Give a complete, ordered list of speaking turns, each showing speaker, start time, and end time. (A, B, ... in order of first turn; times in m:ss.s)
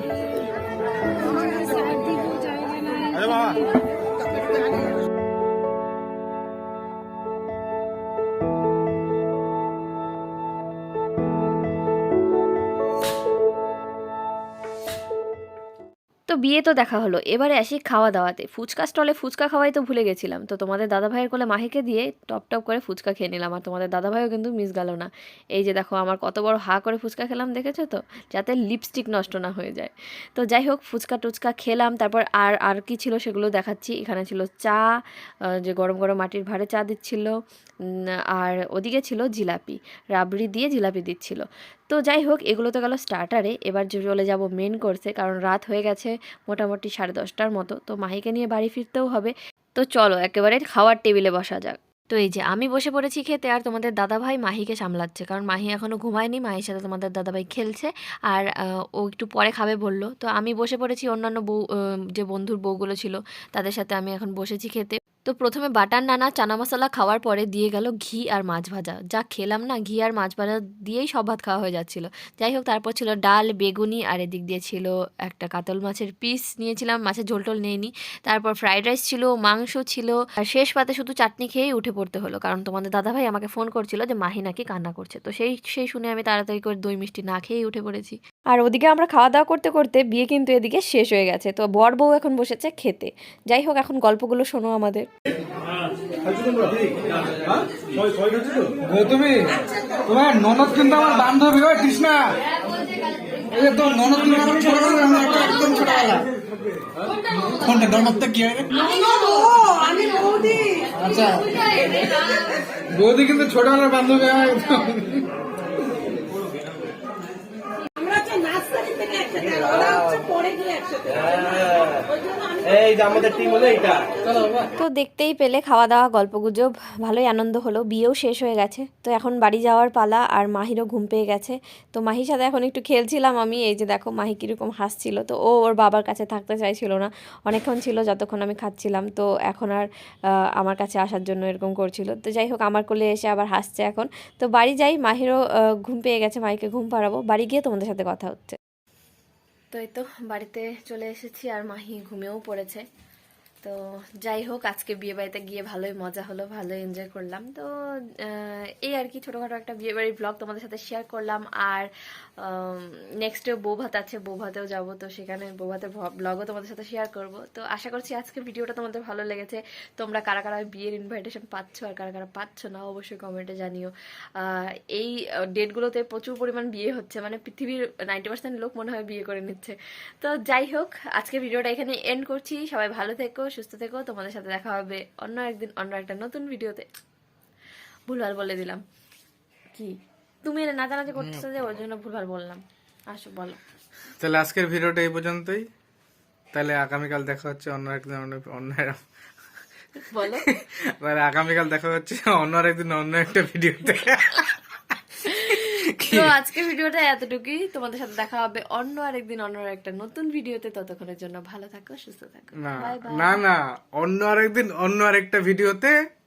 0:16.3-0:34.8 A
0:35.6-0:37.3 A
0:38.3-1:01.6 A
1:02.2-1:35.1 A
1:38.7-1:42.5 B
1:43.4-1:46.3 B
1:47.3-1:49.4 B
1:50.8-1:55.3 B
1:58.1-2:00.5 C
2:02.8-2:03.9 C
2:04.7-2:19.9 A
2:20.6-2:28.6 A
2:29.7-2:32.8 A
2:33.6-2:37.7 A
2:38.2-2:41.9 A
2:42.4-3:06.9 A
3:08.1-3:08.8 A
3:09.7-3:13.6 A
3:11.2-3:11.4 B
3:14.2-3:15.6 B
3:16.5-3:19.0 B
3:20.0-3:20.5 A
3:20.4-3:26.4 B
3:25.2-3:33.4 A
3:32.6-3:35.9 B